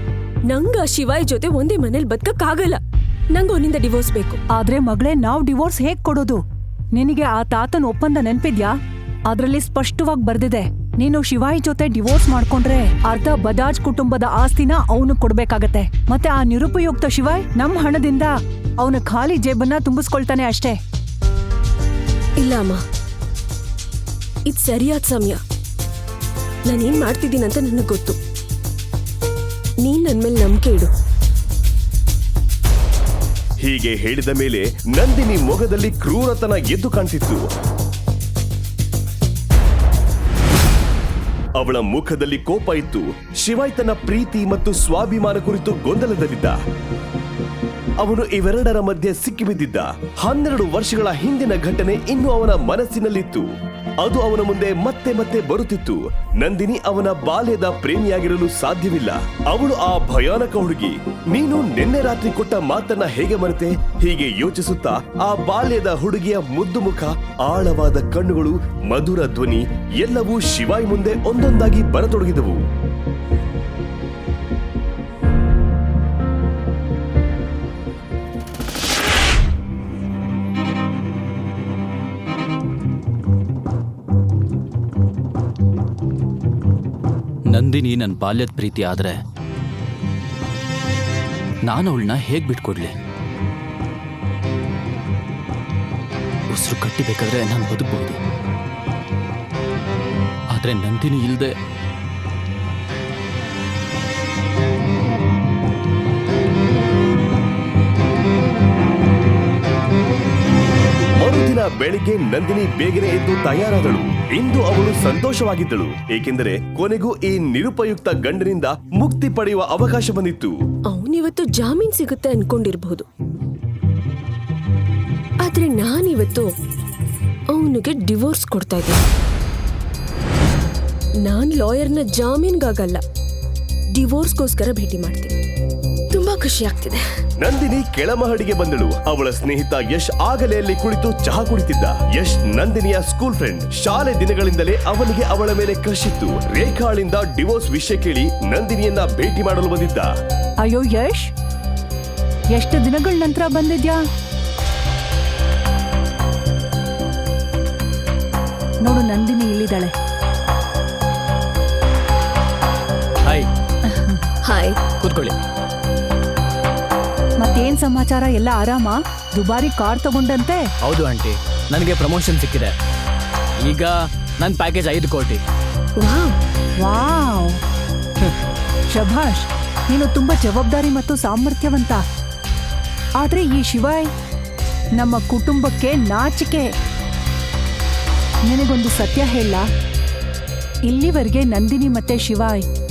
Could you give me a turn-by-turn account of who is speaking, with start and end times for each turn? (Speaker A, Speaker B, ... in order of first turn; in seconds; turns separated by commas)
Speaker A: 0.5-2.8, Speaker A: 3.3-4.4, Speaker B: 4.5-6.4, Speaker B: 6.9-20.8, Speaker A: 22.4-22.8, Speaker A: 24.4-25.4, Speaker A: 26.6-28.2, Speaker A: 29.8-30.9, Speaker C: 33.6-37.5, Speaker C: 41.6-46.6, Speaker C: 48.0-53.5, Speaker C: 54.0-72.7, Speaker D: 87.5-89.2, Speaker D: 91.6-92.9, Speaker D: 96.5-98.2, Speaker D: 100.5-101.5, Speaker C: 111.2-120.6, Speaker A: 120.9-123.0, Speaker A: 125.4-126.5, Speaker A: 127.5-129.0, Speaker A: 131.2-133.0, Speaker A: 133.9-135.3, Speaker A: 136.1-137.0, Speaker C: 137.4-150.1, Speaker B: 150.6-151.3, Speaker B: 152.5-154.0, Speaker B: 158.8-159.9, Speaker B: 163.9-164.2, Speaker A: 164.4-164.8, Speaker E: 165.0-165.3, Speaker B: 167.4-170.7, Speaker E: 170.8-172.7, Speaker E: 173.6-175.4, Speaker A: 176.0-176.3, Speaker B: 176.8-177.6, Speaker B: 178.9-182.0, Speaker B: 183.2-184.1, Speaker B: 184.9-186.7, Speaker B: 188.4-189.7, Speaker B: 190.8-192.7